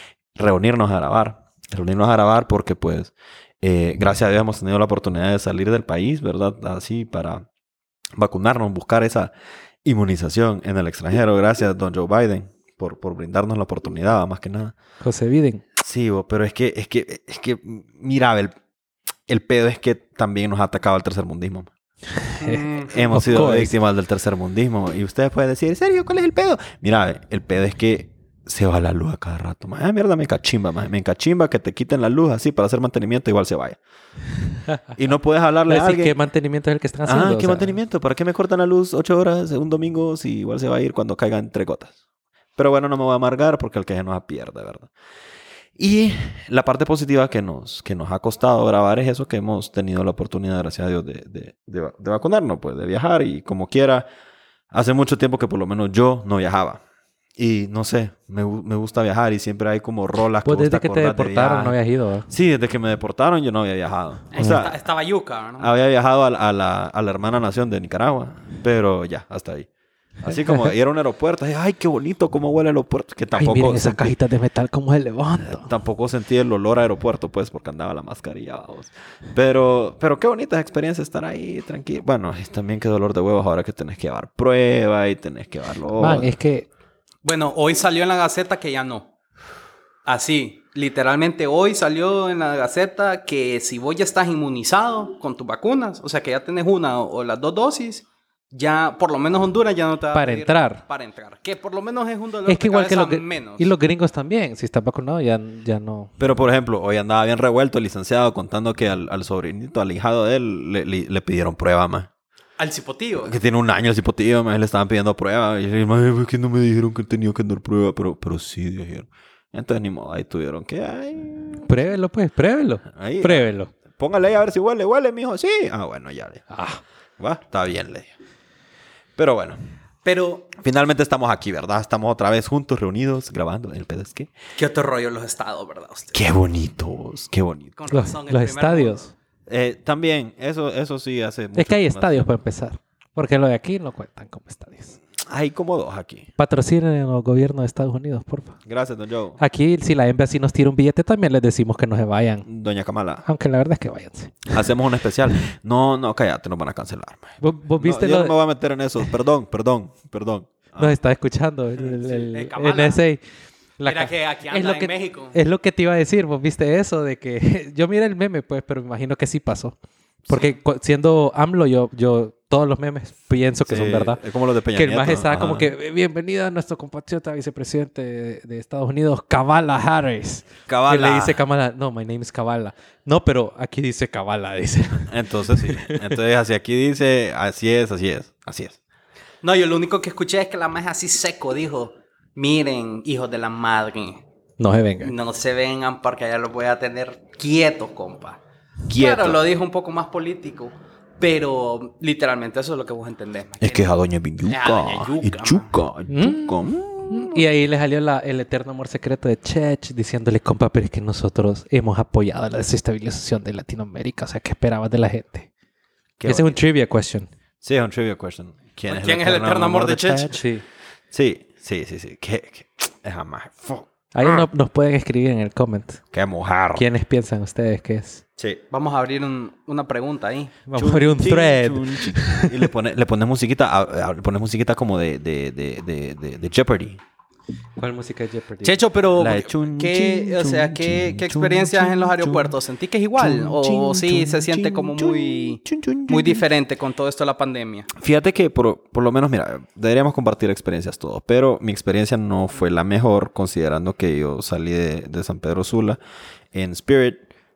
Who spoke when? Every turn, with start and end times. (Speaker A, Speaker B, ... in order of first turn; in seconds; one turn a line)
Speaker A: 0.3-7.5
Speaker A: 8.2-9.3
Speaker A: 9.8-14.8
Speaker B: 15.0-15.6
Speaker A: 15.8-18.5
Speaker A: 19.3-21.7
Speaker B: 22.2-23.7
Speaker C: 22.4-22.9
Speaker A: 22.8-33.8
Speaker A: 34.9-36.1
Speaker B: 35.7-37.8
Speaker A: 37.0-41.9
Speaker A: 42.5-44.9
Speaker A: 45.8-54.1
Speaker A: 54.7-56.8
Speaker A: 57.4-61.7
Speaker B: 60.4-62.3
Speaker A: 62.3-64.8
Speaker C: 64.3-65.7
Speaker A: 65.6-69.7
Speaker A: 70.2-74.1
Speaker B: 70.2-70.7
Speaker B: 73.3-75.7
Speaker A: 75.4-86.3
Speaker B: 86.0-86.7
Speaker C: 87.2-89.1
Speaker C: 90.0-103.7
Speaker B: 100.1-100.8
Speaker B: 102.5-106.1
Speaker A: 106.2-112.1
Speaker C: 112.6-113.3
Speaker A: 113.2-121.7
Speaker B: 121.7-123.7
Speaker A: 122.9-126.5
Speaker B: 126.5-126.8
Speaker A: 127.2-128.1
Speaker A: 129.2-129.6
Speaker C: 130.0-130.5
Speaker A: 130.6-134.3
Speaker C: 134.6-136.2
Speaker A: 136.1-137.7
Speaker C: 137.8-139.1
Speaker B: 137.9-139.1
Speaker A: 139.5-142.2
Speaker B: 141.6-144.9
Speaker A: 145.2-146.3
Speaker B: 146.4-148.6
Speaker A: 148.7-149.4
Speaker B: 149.4-152.5
Speaker A: 152.4-153.2
Speaker B: 153.2-154.6
Speaker A: 154.5-160.9
Speaker B: 157.4-158.3
Speaker B: 160.8-163.2
Speaker C: 162.3-163.0
Speaker B: 163.8-169.7
Speaker C: 163.8-165.4
Speaker B: 170.3-174.2
Speaker A: 173.7-175.7
Speaker B: 174.7-186.1
Speaker A: 180.7-181.4
Speaker A: 185.1-188.8
Speaker C: 189.4-194.2
Speaker B: 194.6-195.1
Speaker C: 195.0-198.4
Speaker A: 198.9-199.4
Speaker C: 198.9-203.9
Speaker A: 203.6-207.4
Speaker C: 204.4-205.8
Speaker B: 206.1-215.5
Speaker A: 216.2-216.6
Speaker B: 216.2-217.3
Speaker A: 217.6-220.2
Speaker C: 218.9-220.4
Speaker B: 220.0-220.6
Speaker A: 221.1-224.5
Speaker B: 224.1-226.0
Speaker A: 226.1-226.8
Speaker B: 226.7-228.2
Speaker C: 228.7-230.6
Speaker B: 230.7-232.7
Speaker A: 230.7-237.0
Speaker B: 237.8-238.8
Speaker C: 238.6-247.9
Speaker A: 239.2-242.6
Speaker A: 243.2-246.4
Speaker A: 247.9-256.0
Speaker A: 256.5-257.2